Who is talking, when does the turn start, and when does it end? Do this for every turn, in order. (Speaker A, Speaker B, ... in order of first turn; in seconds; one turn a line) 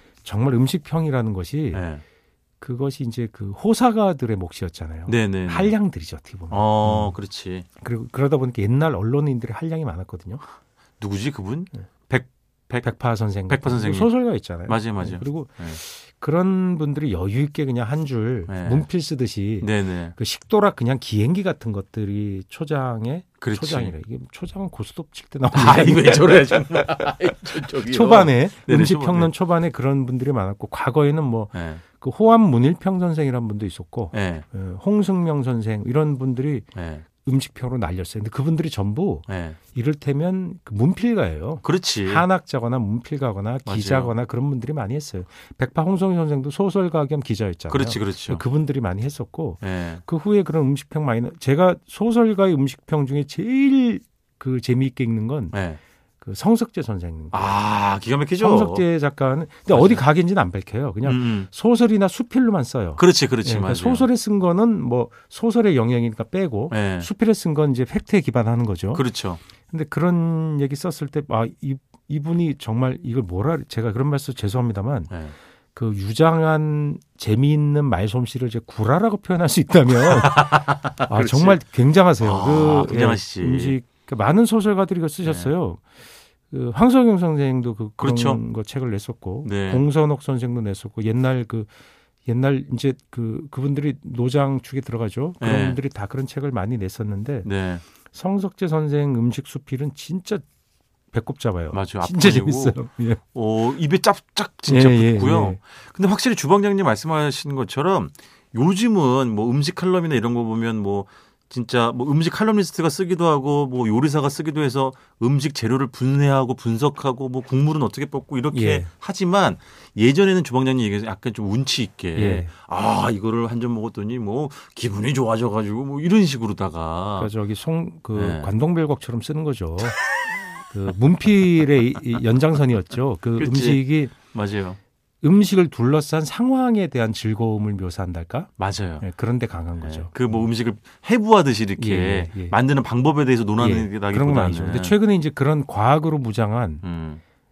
Speaker A: 0.2-1.9
Speaker B: 1.7-2.0
Speaker A: 2.6-7.2
Speaker B: 5.1-5.8
Speaker B: 6.5-7.7
Speaker A: 7.8-10.5
Speaker B: 11.0-12.9
Speaker A: 12.8-27.0
Speaker B: 13.5-15.8
Speaker B: 18.5-18.9
Speaker B: 19.6-20.2
Speaker B: 23.4-24.0
Speaker B: 25.5-29.3
Speaker A: 27.6-36.7
Speaker B: 31.5-31.8
Speaker B: 34.1-34.5
Speaker B: 36.8-37.0
Speaker A: 37.2-55.6
Speaker B: 39.3-39.6
Speaker B: 41.6-42.3
Speaker B: 43.6-44.1
Speaker B: 47.7-48.4
Speaker B: 49.6-50.0
Speaker B: 55.5-55.8
Speaker A: 56.2-57.6
Speaker B: 57.3-58.9
Speaker A: 58.4-69.1
Speaker B: 59.7-60.0
Speaker B: 61.0-61.5
Speaker B: 63.0-64.1
Speaker B: 66.7-67.1
Speaker B: 68.9-69.4
Speaker A: 69.7-75.2
Speaker B: 75.1-75.3
Speaker A: 75.7-85.8
Speaker B: 79.9-81.6
Speaker B: 82.2-83.8
Speaker B: 85.2-85.5
Speaker A: 86.5-91.7
Speaker B: 88.0-88.4
Speaker B: 89.4-89.9
Speaker A: 92.2-97.5
Speaker B: 95.4-95.8
Speaker B: 97.4-97.8
Speaker A: 98.1-100.5
Speaker A: 101.1-103.2
Speaker B: 101.7-102.8
Speaker B: 103.3-127.3
Speaker A: 104.7-105.6
Speaker A: 118.5-118.9
Speaker A: 122.2-122.5
Speaker A: 127.2-130.0
Speaker B: 128.1-128.5
Speaker A: 130.7-134.2
Speaker B: 133.4-134.8
Speaker A: 135.2-140.5
Speaker B: 138.6-139.1
Speaker B: 139.8-145.0
Speaker A: 141.8-142.6
Speaker A: 143.6-146.8
Speaker B: 146.8-147.2